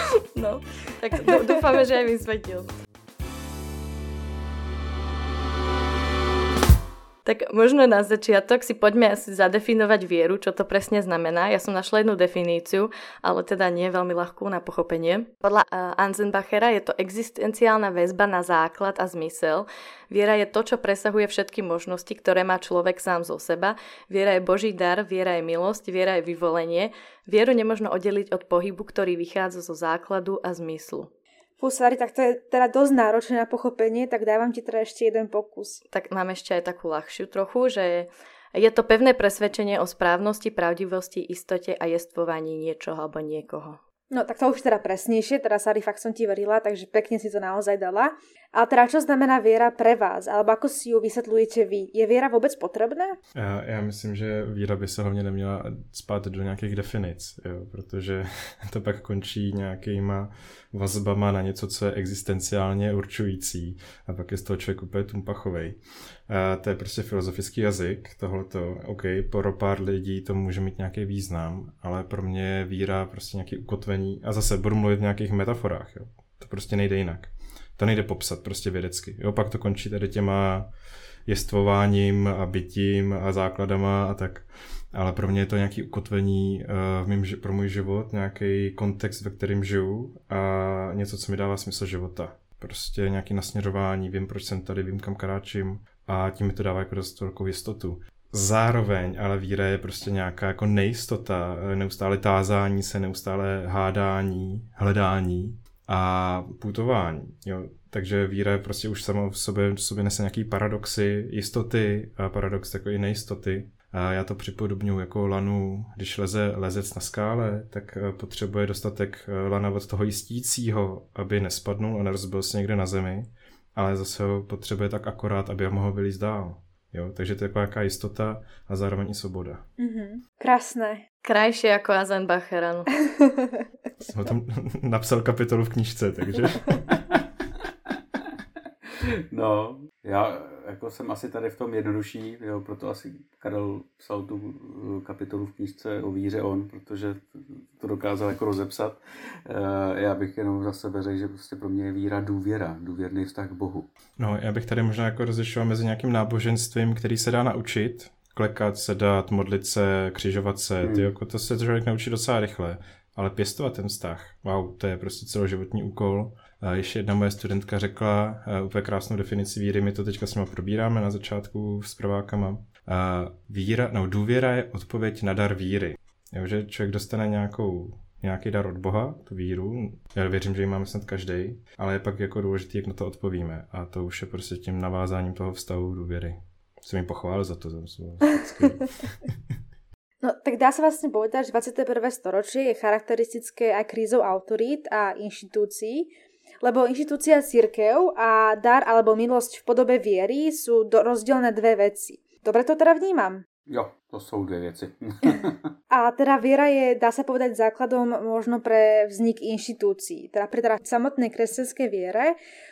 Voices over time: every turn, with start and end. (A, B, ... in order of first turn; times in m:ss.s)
0:00.3-0:02.7 A
0:07.2-0:31.1 A
0:31.6-0:35.8 B
0:35.9-0:43.8 A
0:44.1-0:53.2 B
0:53.3-1:20.7 C
1:21.3-2:09.6 C
2:09.8-2:11.0 B
2:11.2-2:12.9 A
2:14.0-2:16.8 C
2:16.9-2:17.2 D
2:19.0-2:33.9 D
2:34.2-3:09.3 C
2:40.8-2:41.1 D
3:10.2-3:23.4 B
3:23.7-3:25.6 D
3:25.9-3:32.4 B